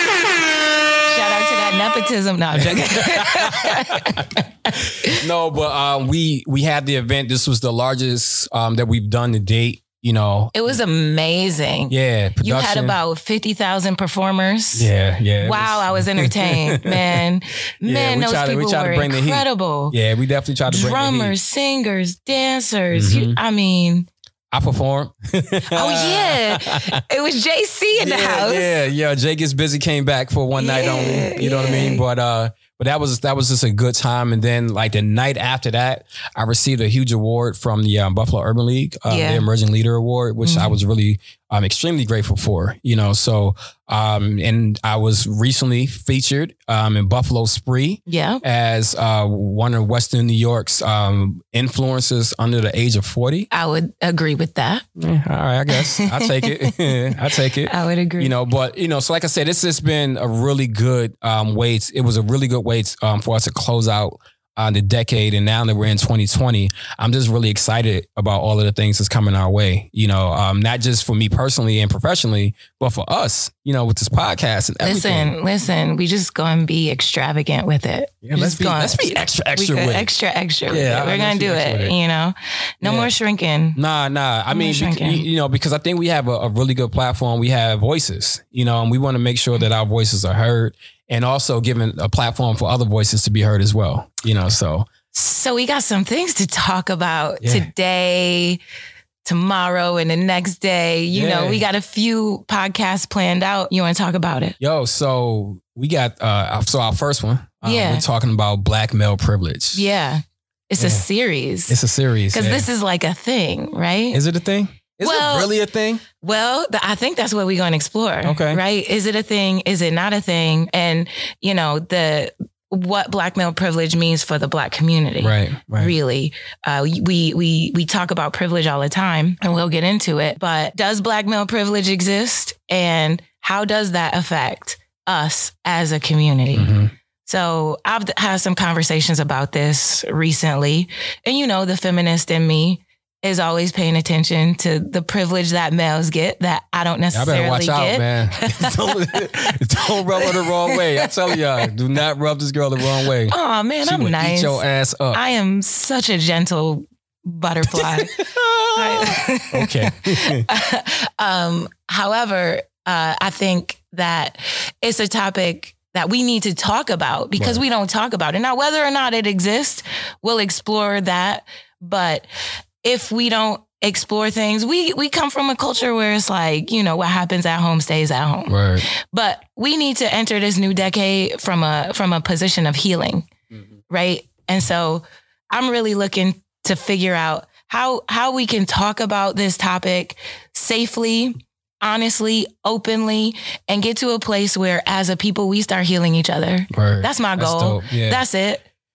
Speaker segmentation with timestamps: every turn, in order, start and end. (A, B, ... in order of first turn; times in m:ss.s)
0:01.1-0:05.2 A
0:02.6-0:04.4 B
0:05.0-0:10.8 B
0:10.5-0:20.0 A
0:11.9-0:13.0 B
0:14.7-0:17.2 B
0:17.8-0:21.4 B
0:20.7-0:24.1 A
0:22.9-0:23.4 B
0:24.5-0:26.9 B
0:25.7-0:28.7 A
0:28.0-0:53.5 B
0:30.6-0:32.0 A
0:39.1-0:39.5 A
0:40.4-0:40.8 A
0:48.1-0:48.4 A
0:53.5-0:54.8 A
0:55.0-1:15.4 B
0:55.7-0:58.3 A
1:14.8-1:23.8 A
1:18.2-1:20.1 B
1:20.7-1:22.0 B
1:22.8-1:23.1 B
1:23.8-1:34.9 B
1:24.5-1:25.3 A
1:35.1-1:38.6 A
1:37.4-1:37.7 B
1:39.2-1:44.6 A
1:41.1-1:41.7 B
1:44.6-1:49.9 B
1:47.6-1:48.1 A
1:49.8-1:51.8 A
1:50.8-1:51.0 B
1:51.7-1:52.7 B
1:52.3-1:54.2 A
1:54.1-1:56.0 B
1:55.0-1:55.5 A
1:56.2-2:16.7 A
1:58.2-1:58.6 B
2:05.2-2:05.9 B
2:16.5-2:16.9 B
2:17.2-2:31.4 A
2:27.1-2:35.2 B
2:33.2-2:52.3 A
2:37.7-2:40.5 B
2:47.4-2:47.6 B
2:52.8-3:03.3 A
2:58.5-2:58.9 B
3:03.9-3:18.6 A
3:16.7-3:18.2 B